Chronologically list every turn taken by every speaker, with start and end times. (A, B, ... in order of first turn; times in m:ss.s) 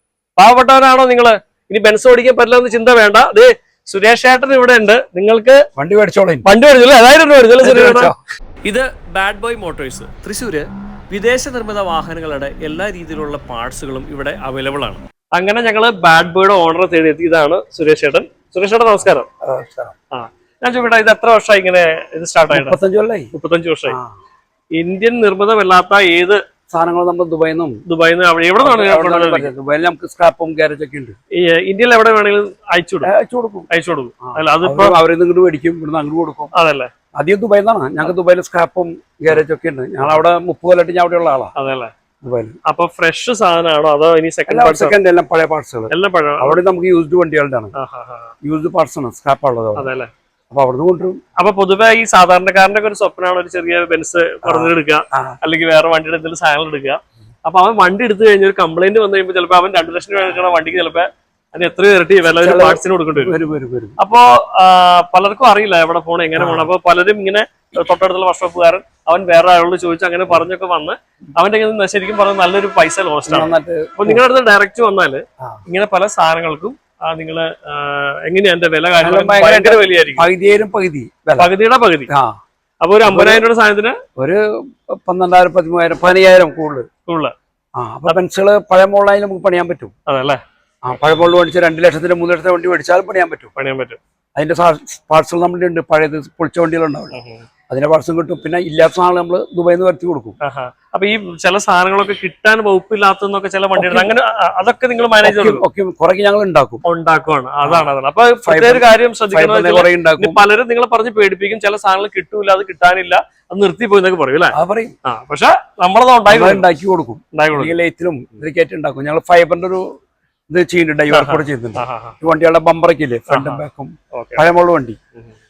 0:00.4-0:05.6 A
0:05.8-0:06.4 B
0:06.4-0:08.1 A
0:07.6-0:08.2 B
0:08.6-0:19.2 A
0:19.4-0:19.9 B
0:20.1-0:22.8 A
0:22.5-0:23.3 B
0:23.3-0:24.0 A
0:24.8-0:26.4 A
0:26.7-0:27.8 B
0:27.8-0:29.5 A
0:28.6-0:31.1 B
0:31.3-0:33.1 A
0:33.0-0:33.7 B
0:33.7-0:35.0 A
0:34.2-0:36.5 B
0:36.5-0:36.9 A
0:37.2-0:41.5 B
0:41.6-0:41.9 A
0:42.2-0:42.6 B
0:42.6-0:45.0 A
0:44.5-0:47.7 B
0:45.9-0:46.6 A
0:47.8-0:48.3 A
0:48.4-0:49.9 B
0:49.8-0:50.1 A
0:50.5-0:51.2 B
0:51.4-1:03.4 A
0:54.4-0:55.4 B
1:02.2-1:04.0 B
1:04.0-1:20.3 A
1:06.4-1:06.7 B
1:13.3-1:14.2 B
1:19.0-1:21.5 B
1:21.4-1:22.1 A
1:22.1-1:22.4 B
1:22.8-1:24.0 A
1:23.0-1:23.4 B
1:24.2-1:26.8 B
1:27.1-1:27.3 A
1:27.8-1:29.9 B
1:30.1-1:30.4 A
1:30.8-1:33.5 B
1:33.6-1:34.0 A
1:34.4-1:37.2 B
1:37.1-1:37.4 A
1:37.7-1:40.4 B
1:40.4-1:45.6 A
1:43.8-1:44.1 B
1:45.2-1:46.8 B
1:46.8-1:56.7 A
1:47.6-1:47.9 B
1:48.4-1:50.4 B
1:54.5-1:54.9 B
1:56.3-1:59.8 B
1:57.3-1:57.8 A
2:00.5-2:05.0 B
2:01.1-2:02.2 A
2:03.3-2:04.4 A